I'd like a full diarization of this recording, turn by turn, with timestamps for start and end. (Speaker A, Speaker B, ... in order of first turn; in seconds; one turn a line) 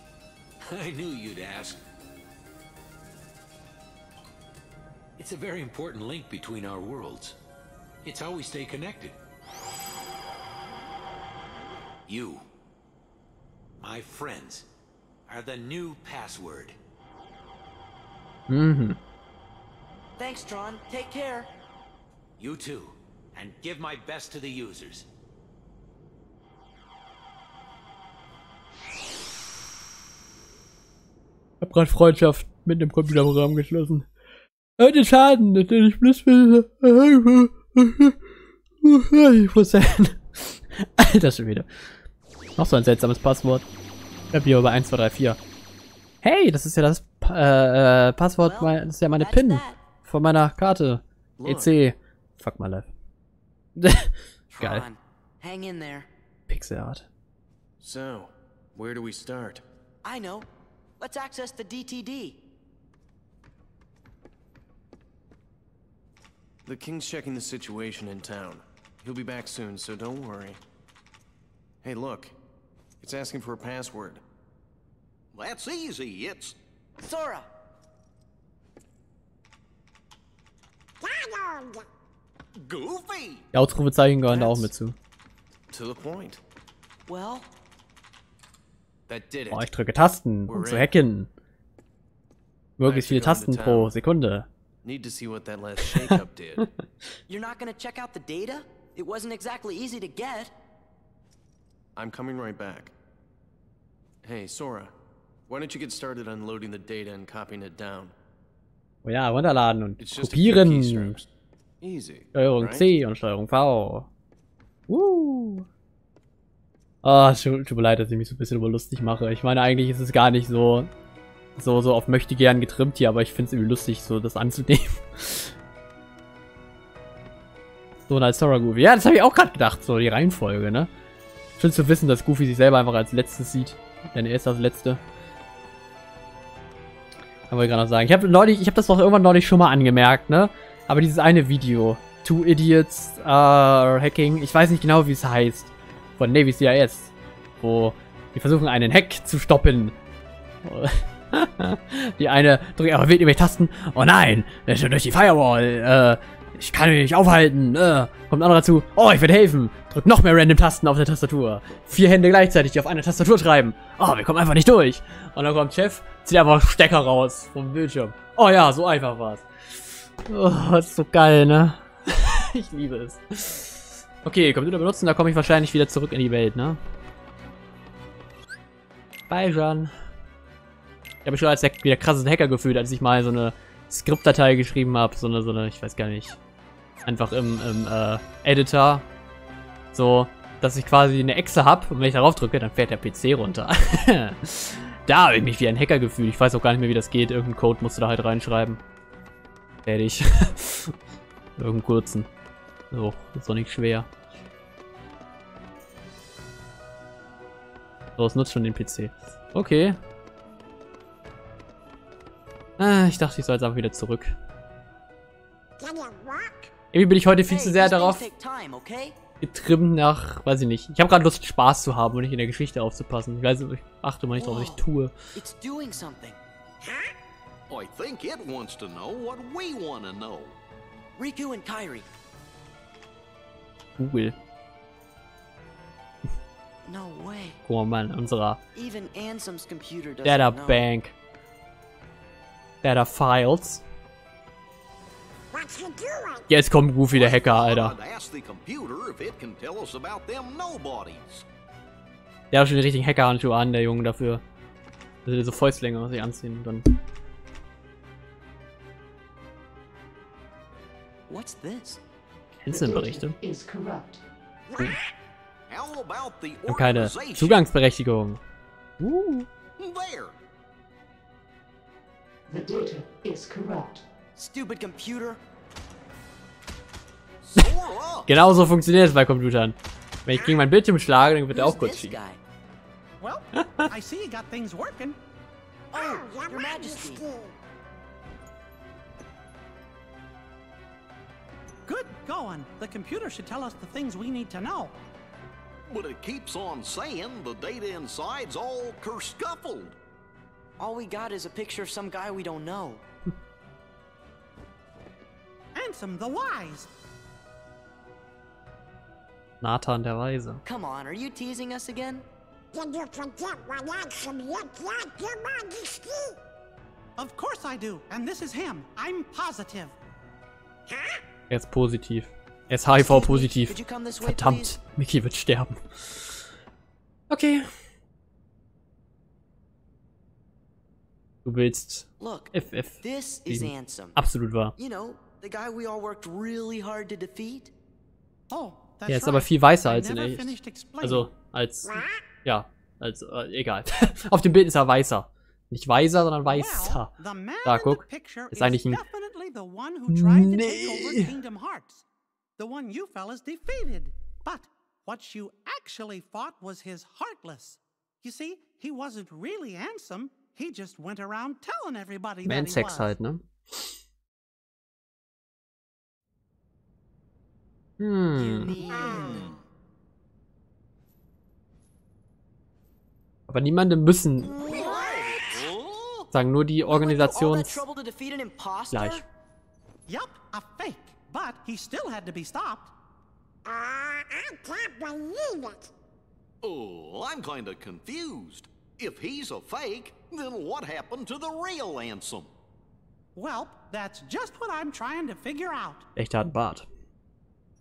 Speaker A: 0.6-1.8
Speaker A: 5.2-7.3
Speaker A: 8.0-9.2
Speaker A: 12.1-12.4
Speaker A: 13.8-14.7
Speaker A: 15.3-16.8
Speaker B: 18.5-19.0
Speaker C: 20.2-21.5
Speaker A: 22.4-25.1
Speaker B: 31.6-34.1
Speaker B: 34.8-38.2
Speaker B: 38.8-41.7
Speaker B: 42.6-43.6
Speaker B: 44.3-45.4
Speaker B: 46.2-52.9
Speaker C: 48.4-49.8
Speaker D: 51.4-51.8
Speaker B: 53.8-54.8
Speaker C: 54.5-56.1
Speaker B: 56.5-57.1
Speaker D: 57.8-59.6
Speaker C: 60.0-60.5
Speaker C: 61.0-62.4
Speaker D: 66.6-70.6
Speaker D: 71.8-72.3
Speaker D: 73.0-74.2
Speaker E: 75.3-76.5
Speaker C: 77.0-77.5
Speaker F: 81.0-81.8
Speaker E: 82.6-83.4
Speaker B: 83.5-84.9
Speaker D: 84.3-84.6
Speaker D: 85.7-86.4
Speaker C: 87.1-87.5
Speaker D: 89.1-89.7
Speaker B: 89.5-91.3
Speaker D: 90.5-91.0
Speaker B: 92.8-94.5
Speaker D: 92.8-94.0
Speaker D: 94.8-96.7
Speaker C: 97.3-100.5
Speaker D: 102.0-102.9
Speaker D: 104.2-104.9
Speaker D: 105.5-108.1
Speaker B: 109.0-111.2
Speaker D: 110.0-111.3
Speaker D: 111.8-112.9
Speaker B: 112.3-114.1
Speaker B: 114.9-115.7
Speaker B: 117.0-120.9
Speaker B: 121.6-125.5
Speaker B: 128.1-130.9
Speaker B: 131.6-135.0
Speaker B: 137.5-149.9
Speaker B: 150.6-169.4
Speaker B: 170.2-176.8
Speaker B: 179.3-179.9
Speaker B: 181.2-186.4
Speaker B: 187.1-189.0
Speaker B: 189.9-198.8
Speaker B: 199.8-200.9
Speaker B: 201.6-202.3
Speaker B: 202.9-204.1
Speaker B: 208.2-210.0
Speaker B: 212.8-214.3
Speaker F: 215.8-216.7
Speaker B: 216.9-218.2
Speaker C: 217.5-219.2
Speaker B: 219.4-225.1
Speaker C: 224.4-224.8
Speaker C: 225.3-226.4
Speaker F: 226.8-227.1
Speaker E: 227.7-230.6
Speaker C: 231.2-232.1
Speaker B: 234.0-234.4
Speaker C: 236.8-237.6
Speaker B: 237.6-238.6
Speaker C: 238.7-240.8
Speaker B: 240.2-241.1
Speaker B: 242.8-243.8
Speaker F: 245.5-246.4
Speaker B: 246.5-247.9
Speaker E: 247.1-251.4
Speaker B: 252.5-254.4
Speaker B: 255.2-257.0
Speaker C: 261.3-262.0
Speaker B: 262.6-263.4
Speaker G: 262.7-264.2
Speaker F: 264.7-264.9
Speaker E: 265.7-267.6
Speaker B: 266.7-268.4
Speaker B: 269.0-269.5
Speaker E: 269.8-270.3
Speaker G: 272.5-274.0
Speaker C: 274.4-275.4
Speaker E: 277.4-278.3
Speaker B: 278.3-282.1
Speaker C: 281.5-282.4
Speaker H: 283.2-285.2
Speaker B: 283.5-283.9
Speaker C: 285.9-287.2
Speaker F: 285.9-287.5
Speaker H: 291.9-294.9
Speaker E: 295.9-300.0
Speaker C: 300.8-303.0
Speaker H: 305.7-306.9
Speaker B: 309.6-310.6
Speaker C: 310.6-312.2
Speaker F: 312.7-316.4
Speaker H: 317.2-319.9
Speaker F: 320.9-321.2
Speaker B: 321.5-326.5
Speaker C: 322.9-324.8
Speaker B: 327.3-327.7
Speaker B: 331.4-334.8
Speaker C: 332.2-334.2
Speaker C: 334.8-337.7
Speaker H: 338.5-341.3
Speaker B: 339.1-347.1
Speaker F: 341.9-342.2
Speaker H: 346.4-352.0
Speaker B: 347.6-349.0
Speaker B: 350.1-351.4
Speaker H: 352.6-363.1
Speaker B: 362.4-363.9
Speaker B: 368.0-368.8
Speaker C: 368.3-369.5
Speaker E: 368.8-369.6
Speaker F: 369.1-369.5
Speaker B: 373.5-374.5
Speaker E: 374.6-376.3
Speaker C: 374.8-375.1
Speaker B: 376.3-377.8
Speaker C: 376.9-379.2
Speaker B: 378.9-379.2
Speaker H: 380.1-382.9
Speaker F: 383.6-385.9
Speaker E: 386.6-392.5
Speaker H: 393.4-396.1
Speaker B: 396.1-396.9